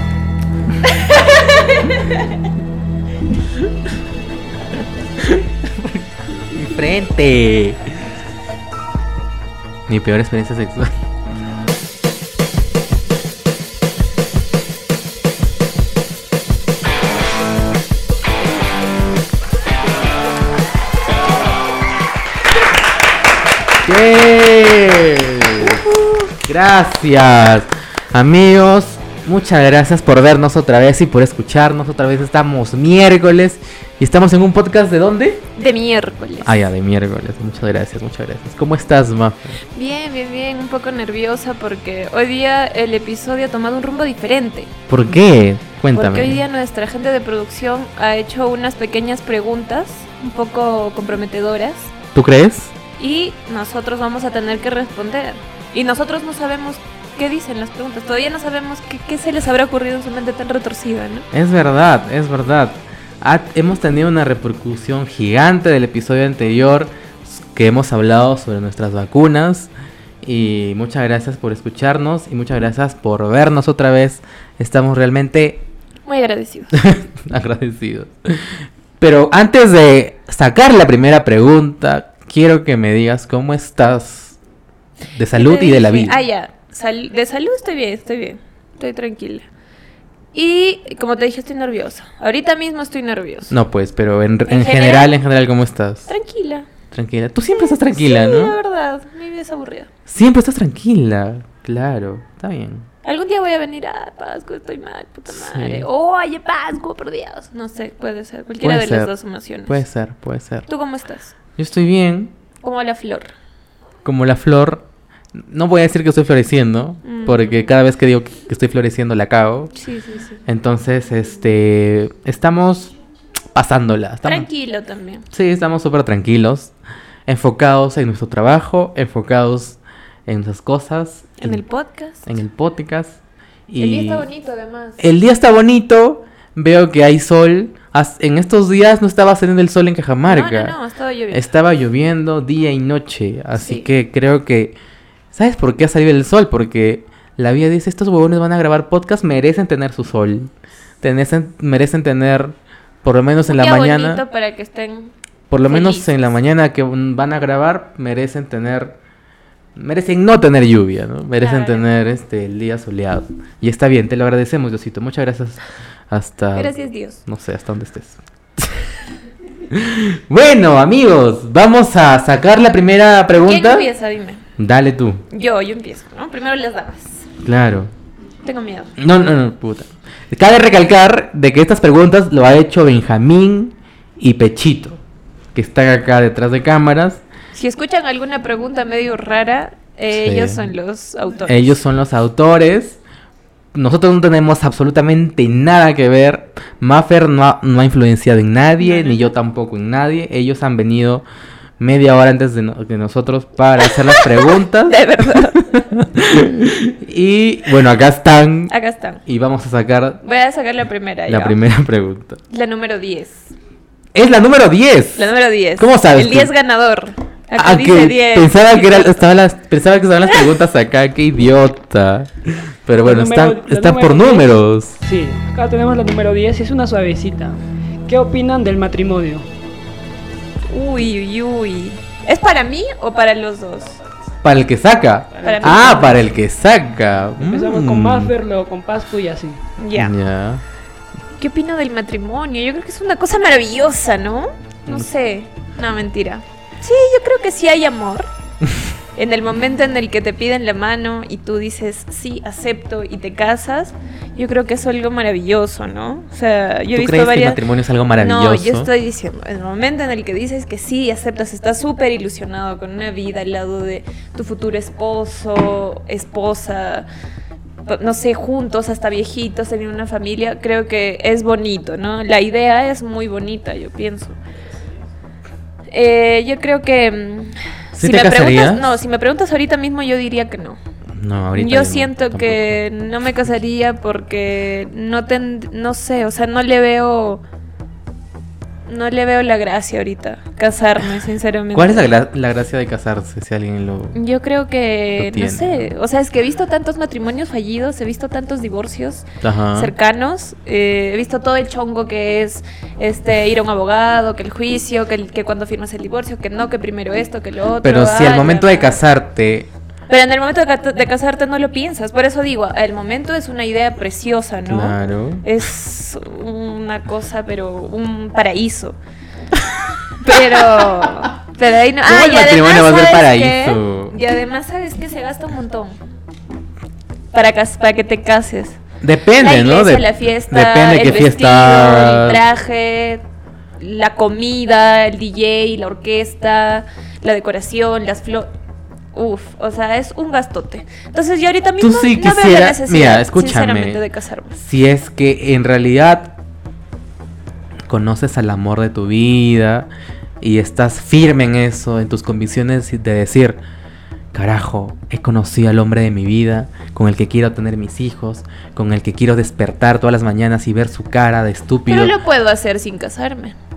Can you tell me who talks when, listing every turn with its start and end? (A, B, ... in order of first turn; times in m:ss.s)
0:01.5-0:01.8 A
0:05.2-0:06.0 B
0:06.5-0:08.0 B
0:09.9-0:11.0 B
0:23.8-0:35.4 B
0:35.6-0:36.6 A
0:36.4-0:39.6 B
0:39.7-0:44.7 A
0:44.9-0:46.4 B
0:45.9-0:51.9 A
0:52.1-0:52.7 B
0:53.0-1:01.3 A
1:01.3-1:09.7 B
1:10.2-1:15.6 B
1:16.0-1:16.7 A
1:16.7-1:24.4 B
1:25.1-1:26.2 B
1:25.3-1:29.4 A
1:30.3-1:33.5 A
1:33.5-1:36.1 B
1:34.5-1:35.1 A
1:36.1-1:36.7 A
1:36.9-1:38.5 B
1:37.6-1:39.9 A
1:40.0-1:42.9 B
1:43.0-1:49.8 A
1:45.3-1:45.8 B
1:48.6-1:49.1 B
1:49.7-1:50.7 B
1:50.7-1:51.3 A
1:51.6-1:52.3 B
1:52.6-1:53.3 A
1:54.0-1:59.7 B
1:57.0-1:57.7 A
1:59.7-2:00.4 A
2:00.4-2:02.9 B
2:03.5-2:04.5 B
2:04.2-2:05.2 A
2:05.3-2:06.7 B
2:07.3-2:11.6 B
2:11.4-2:12.3 A
2:12.2-2:14.2 B
2:13.8-2:15.0 A
2:15.0-2:20.8 B
2:20.2-2:21.5 A
2:21.3-2:24.8 B
2:23.6-2:23.9 A
2:25.3-2:30.5 B
2:31.0-2:34.2 B
2:33.5-2:36.1 A
2:35.5-2:39.0 B
2:39.8-2:46.7 B
2:41.4-2:41.8 A
2:46.5-2:47.2 A
2:47.2-2:48.8 B
2:49.7-2:53.9 B
2:53.4-2:54.4 A
2:54.6-2:55.2 B
2:55.3-2:57.2 A
2:57.4-2:57.9 B
2:58.4-2:58.9 A
2:59.0-3:05.0 B
3:05.5-3:07.2 B
3:07.5-3:11.8 A
3:10.1-3:10.7 B
3:11.4-3:13.0 B
3:13.7-3:21.2 B
3:18.8-3:19.2 A
3:21.8-3:28.7 B
3:24.0-3:25.8 A
3:28.7-3:29.2 A
3:29.2-3:30.2 B
3:30.2-3:31.6 A
3:31.3-3:32.4 B
3:32.5-3:33.5 A
3:34.1-3:36.5 B
3:35.2-3:39.2 A
3:37.6-3:45.0 B
3:43.0-3:47.6 C
3:48.1-3:49.4 C
3:50.7-3:54.0 A
3:54.4-3:58.3 B
3:55.4-3:56.2 A
3:57.4-3:59.6 C
3:59.8-4:00.2 A
3:59.9-4:00.6 B
4:01.4-4:08.3 A
4:09.2-4:17.6 A
4:16.9-4:18.9 B
4:18.2-4:27.0 A
4:27.8-4:34.4 A
4:35.9-4:40.8 A
4:37.9-4:39.0 B
4:41.2-4:42.8 B
4:41.5-4:47.4 A
4:48.8-4:52.1 A
4:51.7-4:54.2 B
4:54.1-5:09.0 A
4:55.2-4:55.9 B
4:59.4-4:59.9 B
5:07.8-5:09.7 B
5:10.1-5:19.0 A
5:14.6-5:15.4 B
5:20.2-5:26.0 A
5:20.2-5:21.2 B
5:22.0-5:24.2 B
5:27.3-5:28.8 A
5:29.0-5:32.4 B
5:29.4-5:33.2 A
5:33.8-5:38.5 A
5:39.1-5:44.6 A
5:41.8-5:44.0 B
5:44.6-5:46.3 B
5:47.9-5:49.9 B
5:50.4-5:53.6 B
5:54.3-6:02.2 B
6:01.9-6:03.6 A